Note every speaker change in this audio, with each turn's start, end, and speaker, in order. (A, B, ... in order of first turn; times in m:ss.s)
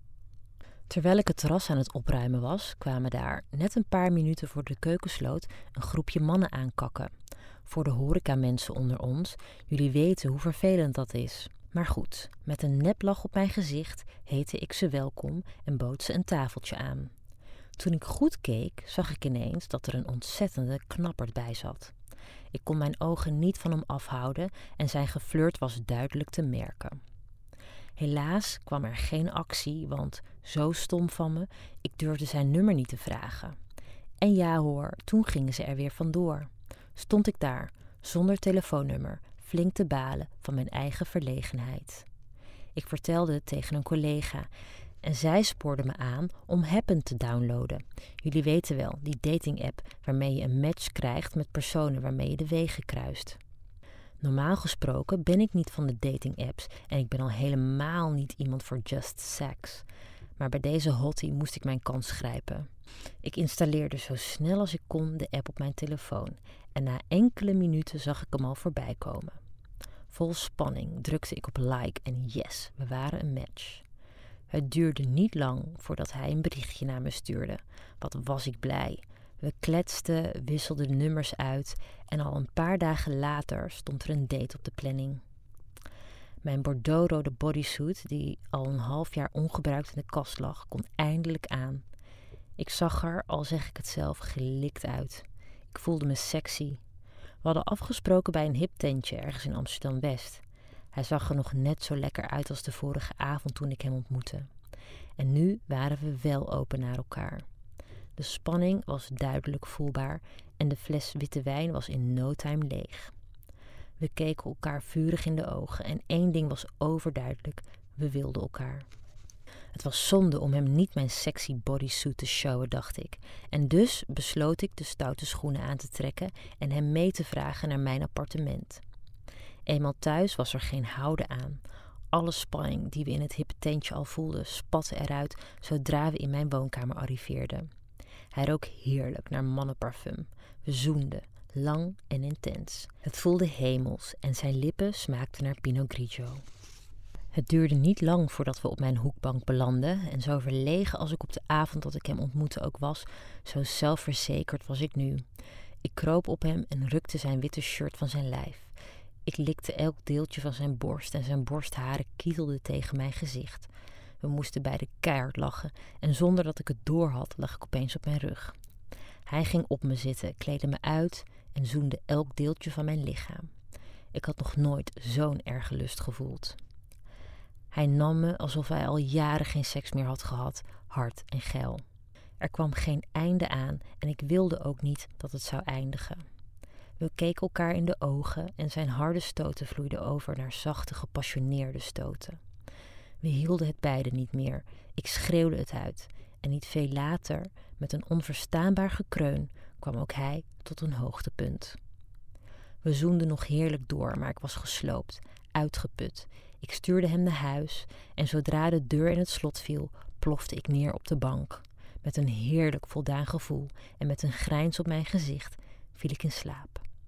0:00.9-0:07.1 A
0:07.6-0:17.1 A
0:17.8-0:21.9 A
0:22.5-0:27.0 A
0:28.0-0:33.6 A
0:34.2-0:42.0 A
0:42.7-0:44.5 A
0:45.0-0:53.4 A
0:54.2-0:59.8 A
1:00.4-1:02.7 A
1:03.2-1:09.4 A
1:10.1-1:13.8 A
1:14.5-1:25.2 A
1:26.4-1:31.8 A
1:32.6-1:36.8 A
1:37.4-1:44.5 A
1:45.2-1:47.4 A
1:48.2-1:53.1 A
1:54.0-1:58.9 A
1:59.7-2:08.8 A
2:09.7-2:17.7 A
2:18.3-2:26.4 A
2:27.3-2:35.2 A
2:35.8-2:38.7 A
2:39.2-2:43.7 A
2:44.2-2:48.6 A
2:49.3-2:53.5 A
2:54.1-2:56.6 A
2:57.7-3:01.8 A
3:02.4-3:06.2 A
3:07.0-3:12.4 A
3:13.2-3:21.8 A
3:22.8-3:36.8 A